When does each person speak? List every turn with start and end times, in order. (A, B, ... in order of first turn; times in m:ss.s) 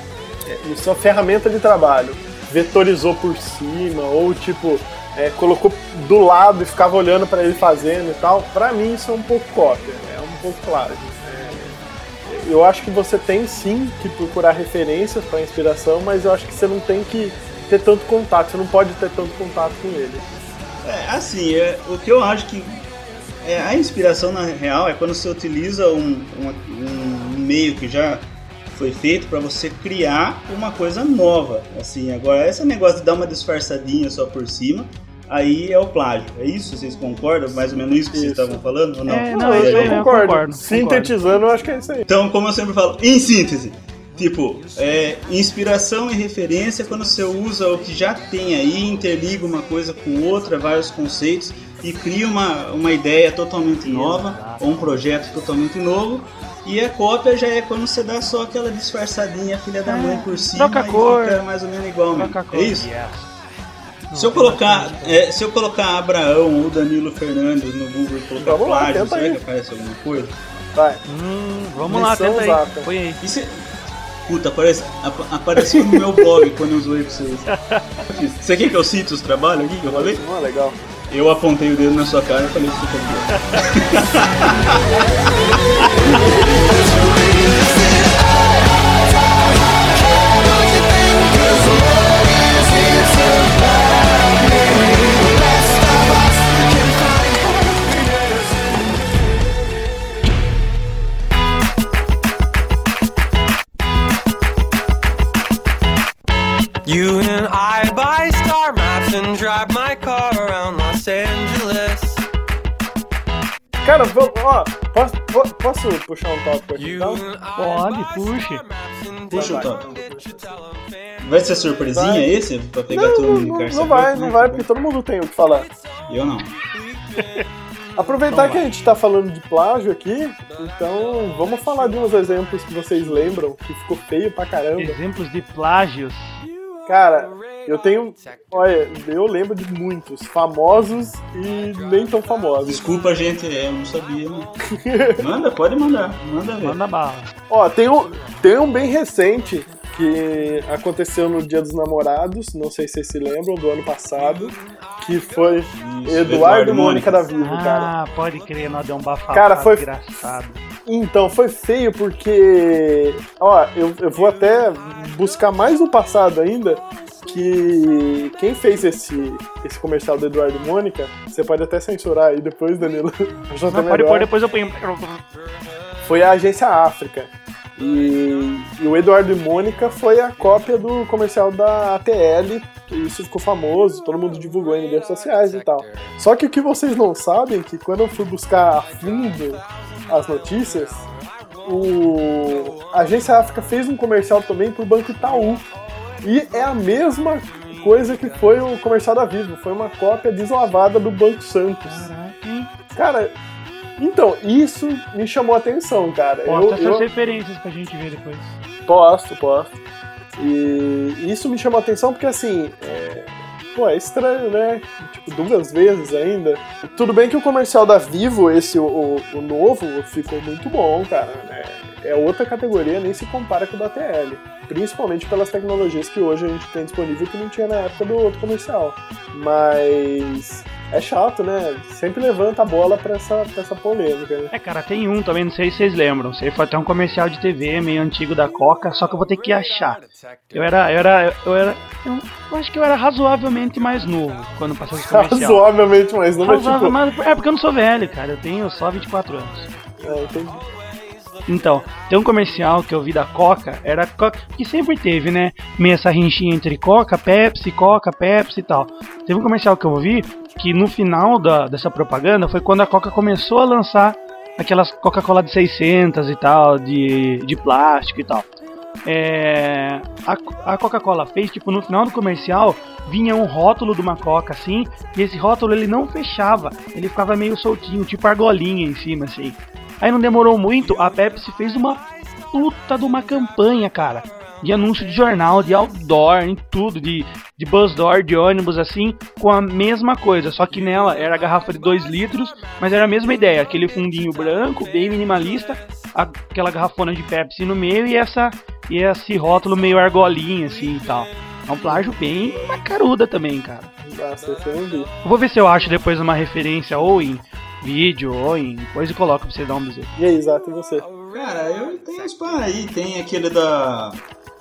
0:00.4-0:11.8 A
0:12.3-0:20.2 A
0:20.8-0:22.8 B
0:23.4-0:40.0 B
0:38.1-0:38.6 A
0:39.0-0:41.1 C
0:39.3-0:42.0 A
0:42.1-1:02.9 B
0:53.8-0:54.6 C
0:59.8-1:01.4 C
1:02.1-1:03.3 C
1:04.1-1:05.2 C
1:04.1-1:10.4 B
1:08.4-1:09.4 A
1:10.7-1:11.0 A
1:11.0-1:13.2 C
1:11.8-1:12.9 A
1:13.2-1:13.7 B
1:14.2-1:17.5 B
1:15.6-1:16.3 A
1:17.5-1:18.0 C
1:18.1-1:20.2 B
1:19.8-1:20.8 A
1:21.1-1:24.8 B
1:25.8-1:39.2 D
1:46.8-1:52.2 D
1:53.8-1:57.2 A
1:56.8-2:01.6 D
1:57.6-1:58.6 C
1:59.3-1:59.9 B
1:59.3-2:00.5 A
2:01.2-2:04.7 B
2:01.9-2:02.3 A
2:02.9-2:05.7 A
2:06.1-2:06.5 B
2:08.0-2:15.0 A
2:08.3-2:08.6 C
2:14.8-2:16.4 C
2:16.6-2:18.8 D
2:16.9-2:22.8 A
2:22.6-2:24.5 B
2:24.7-2:25.2 A
2:25.2-2:26.8 B
2:26.6-2:27.3 C
2:27.5-2:37.9 A
2:35.8-2:37.2 B
2:37.4-2:40.6 C
2:39.3-2:39.8 A
2:40.8-2:54.3 A
2:53.7-2:55.2 C
2:56.0-3:11.0 A
3:11.6-3:15.6 A
3:16.2-3:22.1 A
3:21.8-3:22.7 C
3:22.9-3:23.3 A
3:24.0-3:27.0 A
3:26.4-3:28.6 C
3:28.9-3:29.8 A
3:30.4-3:54.5 A
3:54.5-4:00.0 C
4:00.1-4:00.8 D
4:00.5-4:05.6 C
4:05.0-4:07.0 A
4:06.4-4:09.7 C
4:10.0-4:10.6 A
4:11.5-4:28.5 C
4:29.0-5:03.9 C
5:04.0-5:05.1 A
5:05.2-5:10.1 C
5:10.2-5:11.1 A
5:11.3-5:14.2 B